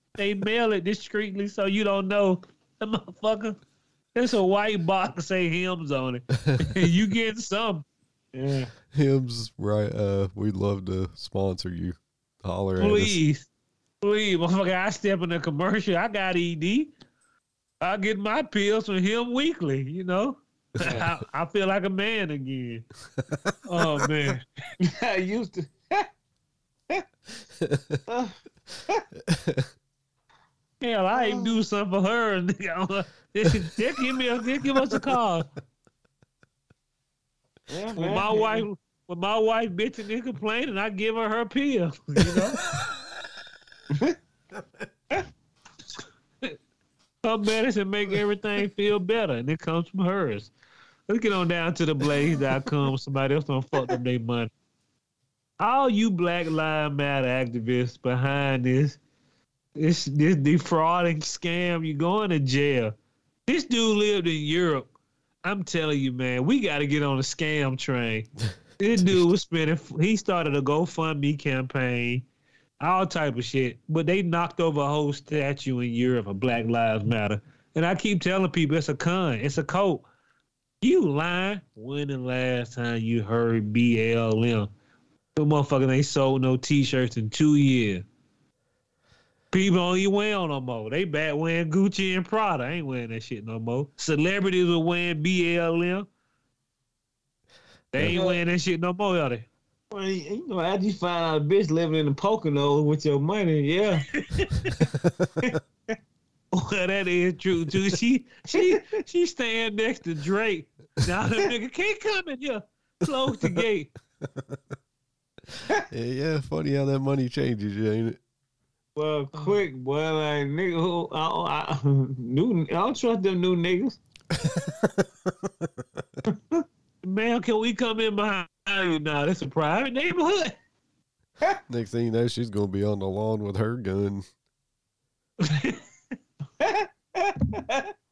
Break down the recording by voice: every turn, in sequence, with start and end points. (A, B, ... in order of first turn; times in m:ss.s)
0:00.2-0:03.6 A
0:04.1-0:07.9 A
0:06.5-0:06.8 B
0:08.3-0:08.7 C
0:08.9-0:13.2 B
0:12.8-0:13.5 A
0:14.0-0:16.9 A
0:17.8-0:22.8 A
0:23.2-0:24.1 B
0:23.6-0:24.4 A
0:24.8-0:26.1 C
0:27.6-0:28.0 B
0:28.1-0:28.4 C
0:29.2-0:29.7 B
0:30.8-0:35.5 A
0:31.1-0:31.5 C
0:37.7-0:38.6 C
0:37.9-0:42.6 A
0:47.2-0:50.5 A
0:51.1-0:54.5 A
0:55.6-0:59.0 A
0:59.8-1:03.0 A
1:03.5-1:04.9 A
1:05.4-1:08.3 A
1:08.8-1:12.2 A
1:09.0-1:09.2 B
1:12.8-1:20.1 A
1:20.8-1:24.7 A
1:25.4-1:28.0 A
1:29.5-1:36.1 A
1:37.9-1:39.5 A
1:38.0-1:38.4 C
1:39.9-1:44.1 C
1:44.1-1:44.8 A
1:45.0-1:45.5 B
1:46.5-1:53.9 A
1:54.2-1:54.6 B
1:55.5-1:58.2 B
1:59.0-2:04.0 C
2:04.3-2:06.2 B
2:06.3-2:06.6 C
2:07.0-2:10.6 A
2:11.7-2:14.3 B
2:15.4-2:15.8 A
2:16.6-2:17.9 C